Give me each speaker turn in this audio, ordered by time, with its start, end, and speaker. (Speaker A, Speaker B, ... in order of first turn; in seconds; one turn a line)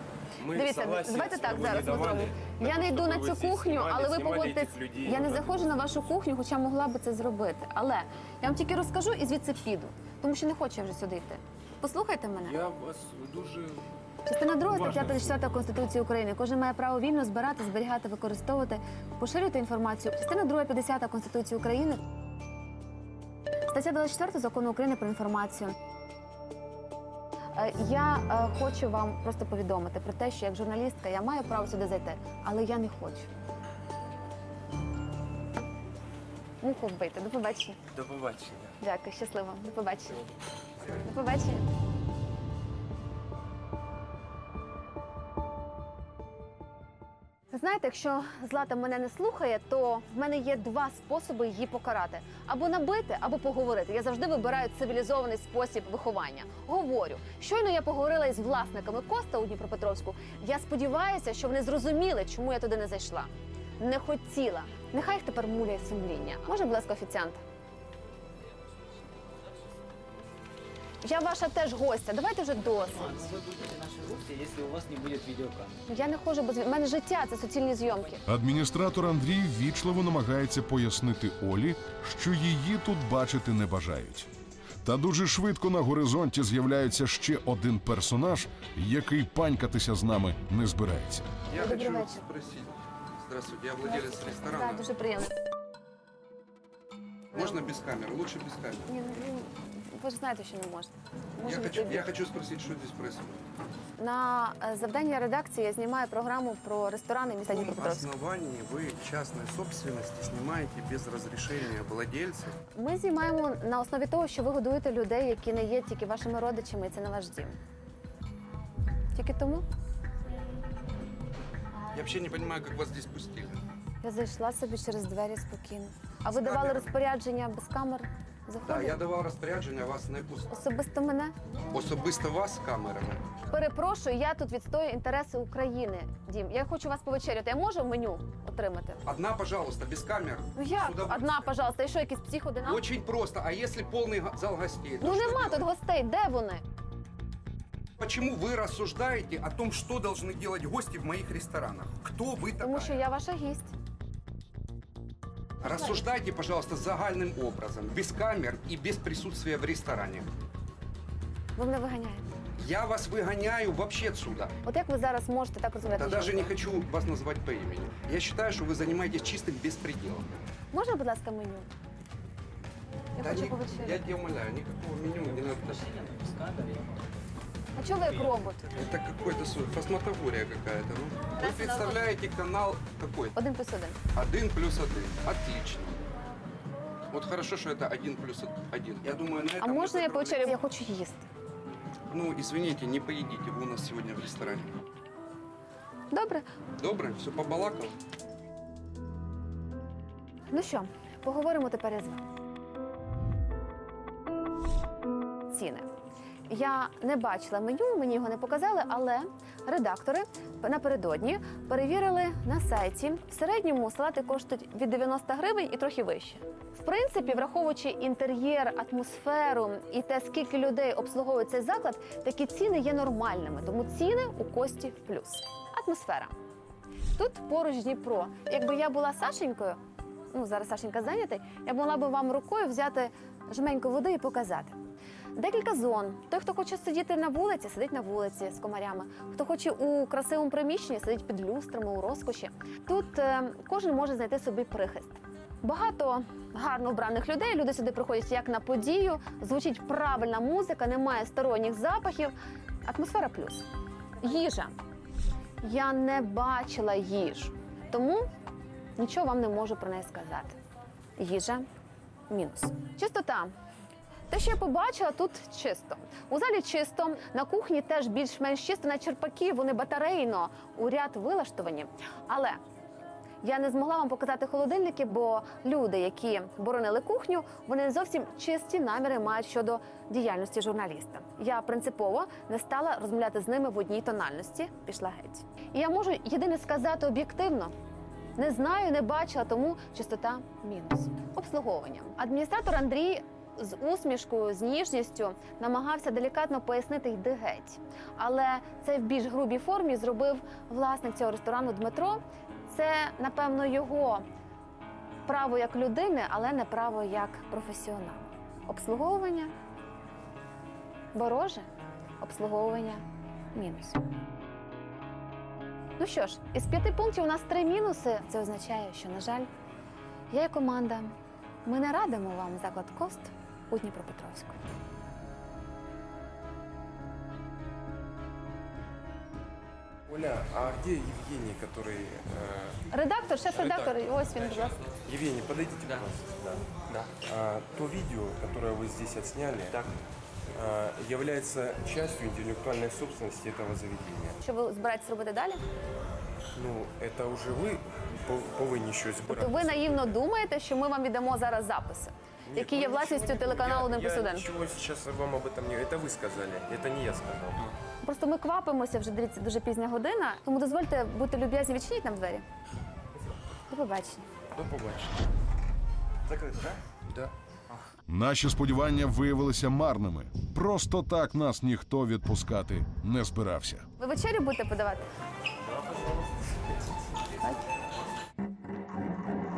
Speaker A: 0.4-5.7
Speaker B: 0.5-12.6
Speaker A: 12.4-13.9
Speaker B: 14.3-22.0
Speaker A: 14.7-15.6
Speaker B: 23.7-25.8
Speaker B: 27.6-33.4
Speaker B: 36.6-37.8
Speaker A: 37.9-38.8
Speaker B: 38.8-40.2
Speaker B: 41.0-41.7
Speaker B: 47.5-67.4
Speaker B: 71.0-73.3
Speaker C: 72.9-75.8
Speaker B: 75.9-78.2
Speaker D: 78.3-84.3
Speaker D: 84.8-91.3
Speaker E: 91.5-94.8
Speaker B: 91.6-92.2
Speaker B: 93.8-95.3
Speaker E: 97.3-98.9
Speaker B: 98.9-102.1
Speaker E: 101.4-103.4
Speaker B: 104.0-108.1
Speaker E: 107.5-112.6
Speaker B: 112.8-117.6
Speaker B: 119.1-119.7
Speaker E: 121.9-123.6
Speaker B: 124.0-129.0
Speaker E: 126.3-126.9
Speaker E: 128.7-130.5
Speaker B: 130.5-131.3
Speaker E: 131.7-133.2
Speaker B: 133.5-139.0
Speaker E: 139.1-141.5
Speaker B: 140.6-142.8
Speaker E: 142.6-145.7
Speaker B: 145.0-146.6
Speaker E: 148.0-153.0
Speaker B: 152.6-153.7
Speaker E: 155.6-160.3
Speaker B: 161.6-162.2
Speaker E: 162.6-164.5
Speaker B: 164.7-166.5
Speaker E: 166.0-170.3
Speaker B: 170.7-171.7
Speaker B: 173.2-174.1
Speaker E: 173.2-175.8
Speaker C: 175.2-177.2
Speaker B: 177.8-178.7
Speaker E: 178.7-183.3
Speaker B: 181.4-182.0
Speaker B: 183.3-184.0
Speaker E: 184.1-186.0
Speaker E: 187.1-190.5
Speaker B: 189.6-191.3
Speaker E: 192.1-194.8
Speaker B: 196.1-196.5
Speaker E: 196.8-198.0
Speaker B: 200.5-202.3
Speaker B: 205.5-205.9
Speaker B: 206.5-226.3
Speaker B: 227.2-234.8
Speaker B: 235.3-253.7
Speaker B: 254.2-254.8
Speaker B: 255.6-258.3
Speaker B: 259.0-260.6
Speaker B: 261.2-261.6
Speaker B: 262.3-263.5
Speaker B: 264.3-272.6
Speaker B: 273.4-287.7
Speaker B: 288.4-304.2
Speaker B: 305.2-309.5
Speaker B: 311.1-311.7
Speaker B: 312.2-314.0
Speaker B: 316.0-319.5
Speaker B: 320.3-321.1
Speaker B: 321.6-324.6
Speaker A: 330.1-332.8
Speaker B: 332.9-334.8
Speaker A: 333.5-334.0
Speaker A: 335.1-339.9
Speaker A: 340.5-344.4
Speaker B: 344.4-345.6
Speaker A: 346.6-349.9
Speaker B: 349.3-354.5
Speaker A: 352.5-357.7
Speaker B: 358.0-362.4
Speaker B: 363.7-364.3
Speaker A: 364.6-365.1
Speaker A: 366.3-367.3
Speaker D: 368.1-373.9
Speaker B: 374.0-375.1